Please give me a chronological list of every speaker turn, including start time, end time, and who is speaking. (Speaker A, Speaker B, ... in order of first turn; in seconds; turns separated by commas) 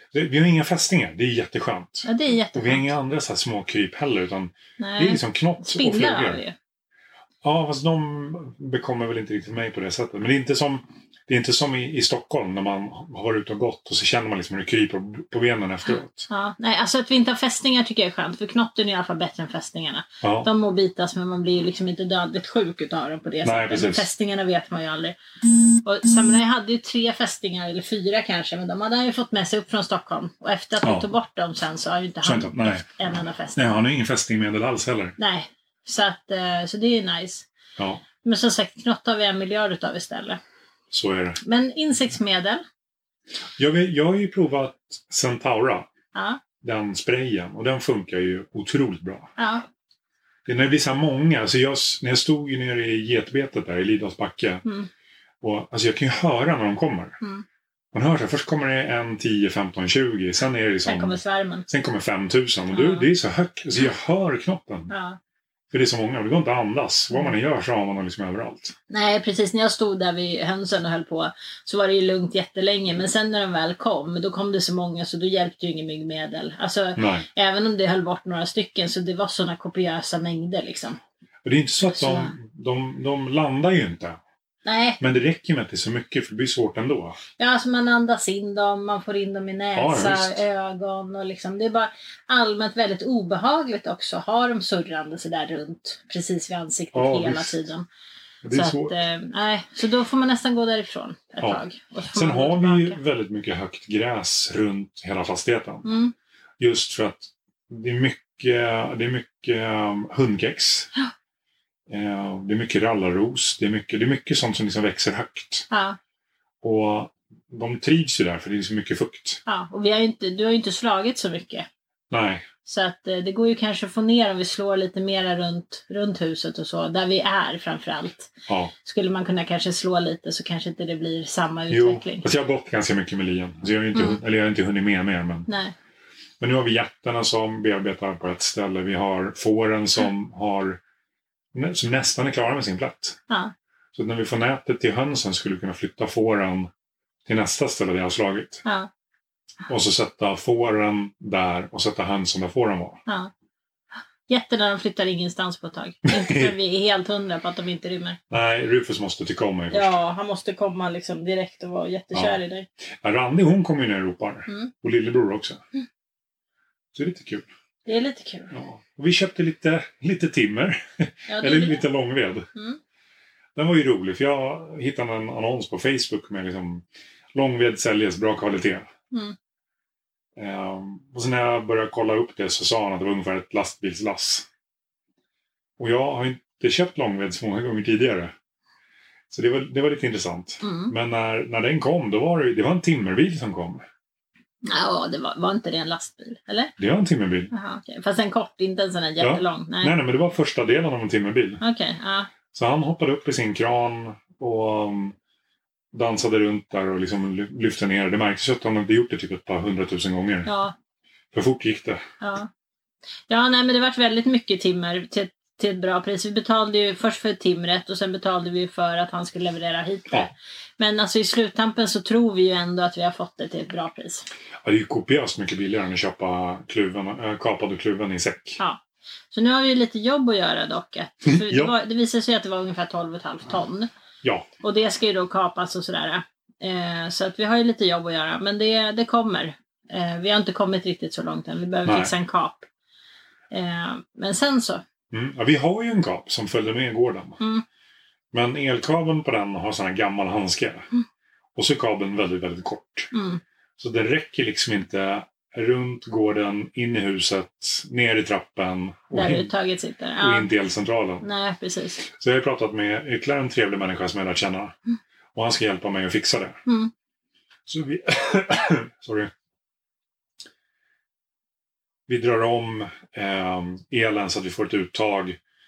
Speaker A: 0.1-6.4, Speaker B: 2.0-2.9, Speaker B: 4.8-6.5, Speaker A: 7.4-16.3, Speaker B: 16.3-25.2, Speaker A: 20.2-20.5, Speaker A: 23.4-24.1, Speaker B: 25.8-33.8, Speaker A: 30.8-31.1, Speaker A: 32.2-32.9, Speaker A: 33.6-35.1, Speaker B: 35.2-37.5, Speaker A: 37.8-38.0, Speaker B: 38.2-40.4, Speaker A: 40.9-41.4, Speaker B: 41.4-42.6, Speaker A: 43.6-45.9, Speaker B: 46.1-46.4, Speaker A: 46.6-49.3, Speaker B: 49.4-49.6, Speaker A: 50.5-54.6, Speaker A: 55.4-57.2, Speaker A: 57.9-64.9, Speaker B: 60.9-61.7, Speaker B: 62.7-63.1, Speaker B: 64.9-65.2, Speaker A: 65.7-68.7, Speaker B: 68.9-81.0, Speaker A: 77.0-77.3, Speaker A: 81.4-84.2, Speaker B: 81.9-82.3, Speaker B: 84.7-85.0, Speaker A: 85.0-87.2, Speaker B: 87.4-97.9, Speaker A: 89.8-90.4, Speaker A: 96.9-97.6, Speaker A: 98.4-99.0, Speaker B: 98.5-103.0, Speaker A: 102.1-105.9, Speaker B: 105.8-106.1, Speaker A: 106.6-110.9, Speaker A: 111.9-115.7, Speaker B: 115.7-116.0, Speaker A: 116.6-119.4, Speaker B: 119.5-121.7, Speaker A: 122.1-122.5, Speaker B: 122.7-132.3, Speaker A: 128.5-128.7, Speaker A: 131.7-135.5, Speaker B: 135.5-135.7, Speaker A: 136.4-140.8, Speaker A: 141.5-143.2, Speaker A: 143.9-146.7, Speaker A: 147.3-148.7, Speaker A: 149.7-153.0, Speaker B: 154.3-158.2, Speaker A: 156.1-156.5, Speaker A: 158.3-159.9, Speaker B: 159.7-162.7, Speaker A: 162.1-162.4, Speaker A: 163.0-165.6, Speaker A: 166.9-167.5, Speaker B: 167.9-168.5, Speaker A: 168.5-172.5, Speaker B: 171.3-171.8, Speaker A: 173.6-178.9, Speaker A: 180.4-184.5, Speaker A: 185.8-188.3, Speaker A: 189.3-193.8, Speaker B: 190.6-190.9, Speaker B: 194.7-196.7, Speaker A: 196.8-197.5, Speaker B: 197.5-200.0, Speaker A: 199.2-201.6, Speaker B: 201.6-202.3, Speaker A: 202.5-205.2, Speaker A: 205.9-210.5, Speaker B: 210.5-210.8, Speaker A: 211.3-212.0, Speaker B: 212.2-212.5, Speaker B: 213.3-224.3, Speaker A: 224.6-228.6, Speaker B: 228.6-233.9, Speaker A: 231.2-231.7, Speaker B: 234.6-242.7, Speaker A: 241.9-242.1, Speaker B: 243.5-244.8, Speaker A: 245.1-247.4, Speaker A: 248.3-250.9, Speaker A: 251.6-253.1, Speaker B: 253.1-253.4, Speaker A: 253.8-259.5, Speaker B: 259.1-260.5, Speaker A: 260.2-261.2, Speaker B: 261.2-262.0, Speaker A: 262.0-264.8, Speaker A: 265.4-266.6, Speaker B: 266.7-266.9, Speaker A: 267.7-269.3, Speaker A: 272.1-275.4